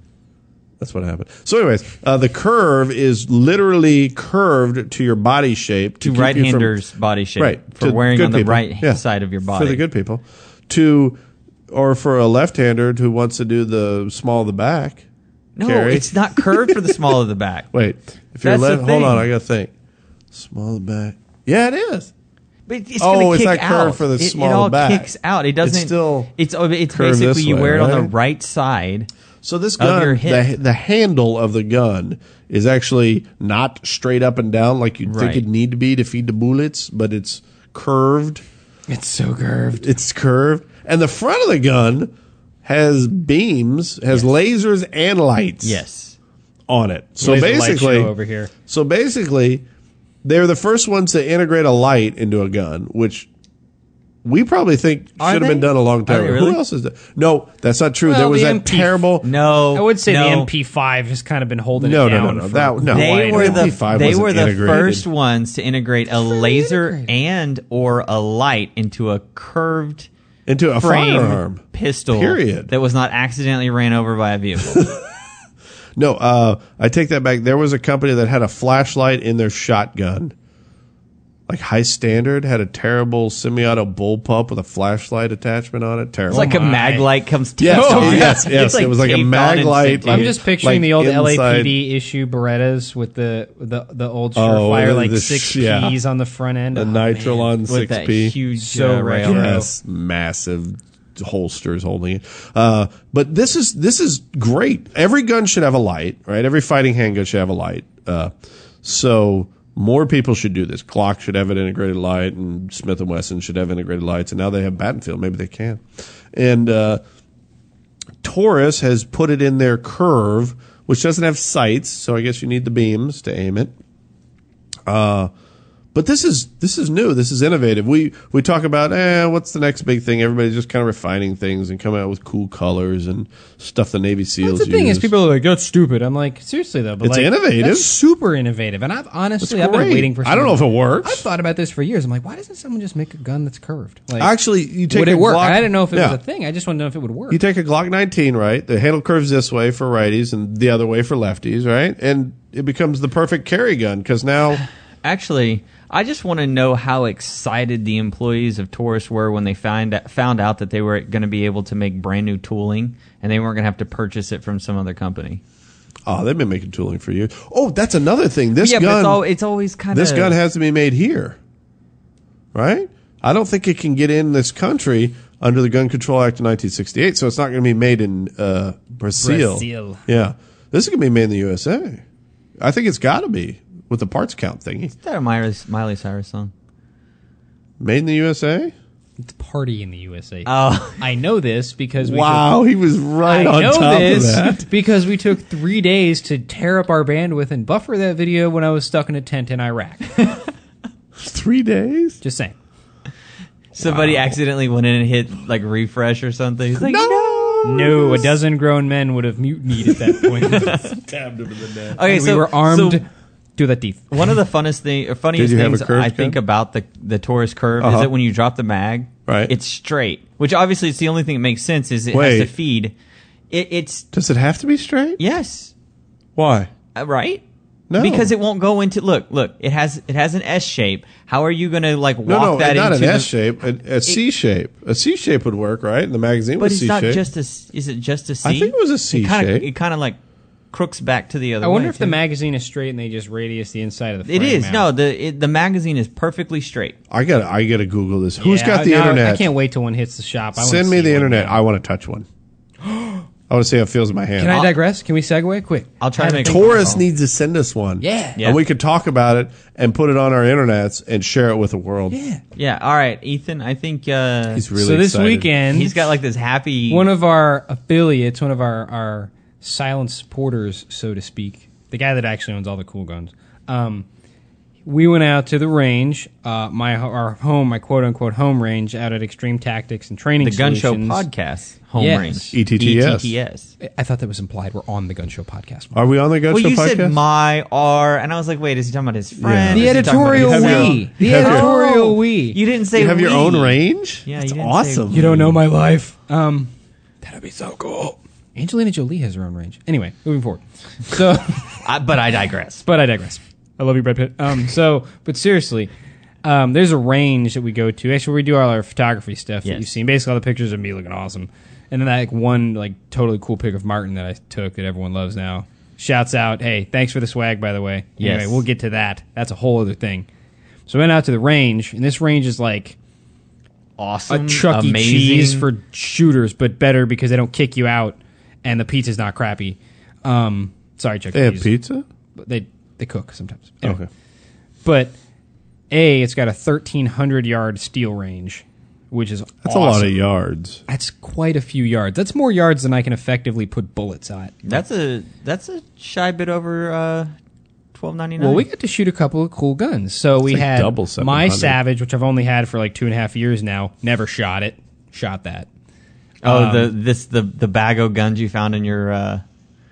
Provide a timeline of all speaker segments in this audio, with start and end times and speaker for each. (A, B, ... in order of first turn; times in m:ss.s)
0:00.8-0:06.7 A
0:06.0-0:09.8 B
0:07.4-0:15.0 A
0:15.6-0:17.7 B
0:15.6-0:17.2 A
0:17.7-0:19.7 A
0:18.4-0:19.3 B
0:20.3-0:22.1 A
0:22.7-0:29.1 B
0:23.0-0:26.3 A
0:26.9-0:28.1 A
0:29.4-0:38.4 A
0:29.8-0:30.5 B
0:35.0-0:35.4 B
0:38.9-0:39.9 C
0:39.8-0:42.1 A
0:42.6-0:45.8 A
0:45.6-0:46.2 B
0:46.7-0:48.1 A
0:47.2-0:48.5 C
0:48.6-0:49.6 A
0:50.2-0:53.3 A
0:54.2-0:59.3 A
0:55.2-0:56.6 B
0:58.0-0:59.0 C
0:59.2-1:00.5 B
0:59.7-1:03.8 C
1:01.8-1:05.0 A
1:02.8-1:10.1 B
1:06.2-1:07.1 C
1:10.5-1:12.7 A
1:10.8-1:15.0 B
1:10.8-1:11.3 C
1:14.7-1:15.0 A
1:16.0-1:20.3 A
1:21.5-1:26.6 A
1:26.3-1:27.0 C
1:26.3-1:30.3 B
1:27.6-1:31.8 A
1:27.7-1:28.5 C
1:30.1-1:37.0 C
1:34.3-1:36.0 A
1:36.7-1:38.4 A
1:37.1-1:39.6 B
1:38.5-1:39.7 C
1:39.2-1:48.3 A
1:48.8-1:57.0 A
1:58.2-2:03.7 A
2:04.9-2:05.3 A
2:05.9-2:15.1 A
2:14.4-2:24.3 C
2:17.0-2:17.9 A
2:19.4-2:21.2 A
2:24.2-2:26.2 A
2:24.9-2:27.4 C
2:27.3-2:34.6 A
2:35.0-2:45.4 B
2:46.0-2:49.2 A
2:48.6-2:50.4 B
2:49.9-2:51.4 A
2:52.5-3:02.0 A
2:59.2-3:00.0 C
3:02.6-3:04.9 A
3:05.0-3:06.5 B
3:07.8-3:08.7 A
3:09.2-3:12.6 C
3:10.4-3:11.0 B
3:12.0-3:14.7 A
3:13.2-3:20.2 C
3:21.2-3:22.2 A
3:22.2-3:22.5 C
3:23.7-3:27.5 B
3:23.8-3:24.3 A
3:26.8-3:28.4 A
3:27.6-3:30.8 C
3:30.2-3:32.0 A
3:30.4-3:31.0 B
3:31.9-3:33.0 B
3:32.0-3:33.0 C
3:33.6-3:34.3 C
3:34.1-3:42.9 B
3:35.3-3:36.4 A
3:37.8-3:38.1 A
3:39.3-3:39.5 A
3:42.1-3:42.5 A
3:43.5-3:44.0 B
3:44.1-3:45.2 A
3:45.2-3:45.7 B
3:46.4-3:46.7 A
3:47.0-3:47.4 B
3:47.9-3:48.3 A
3:48.0-3:53.5 B
3:52.2-3:57.2 A
3:56.6-4:00.2 B
3:58.4-3:59.7 A
4:00.7-4:02.2 B
4:01.6-4:04.9 C
4:04.2-4:07.0 B
4:07.1-4:09.5 A
4:08.4-4:11.6 C
4:10.6-4:12.3 A
4:12.8-4:13.2 C
4:13.5-4:14.6 A
4:14.4-4:16.9 C
4:14.5-4:14.7 B
4:16.0-4:17.0 B
4:16.4-4:22.2 A
4:18.0-4:18.4 C
4:22.1-4:22.4 C
4:22.6-4:24.6 B
4:24.5-4:25.5 A
4:24.8-4:26.0 C
4:25.7-4:27.1 B
4:26.9-4:34.1 C
4:34.8-4:41.2 C
4:40.4-4:43.7 B
4:42.0-4:42.6 C
4:42.5-4:43.3 A
4:43.8-4:46.1 C
4:45.9-4:47.2 A
4:46.5-4:55.2 B
4:49.4-4:51.7 A
4:49.7-4:52.6 C
4:52.9-4:55.6 A
4:55.1-4:56.7 C
4:57.2-5:01.8 C
5:01.7-5:02.8 B
5:02.8-5:05.9 C
5:06.4-5:20.3 C
5:18.2-5:18.6 B
5:20.9-5:23.0 C
5:24.0-5:25.7 B
5:24.3-5:31.7 C
5:31.3-5:32.0 A
5:32.4-5:34.0 C
5:33.8-5:34.1 A
5:34.8-5:35.1 C
5:35.9-5:40.2 C
5:39.6-5:40.8 A
5:40.9-5:44.8 C
5:44.6-5:47.3 B
5:47.9-5:48.6 B
5:48.4-5:55.7 C
5:50.5-5:51.8 A
5:56.4-5:59.4 B
5:56.4-5:56.9 C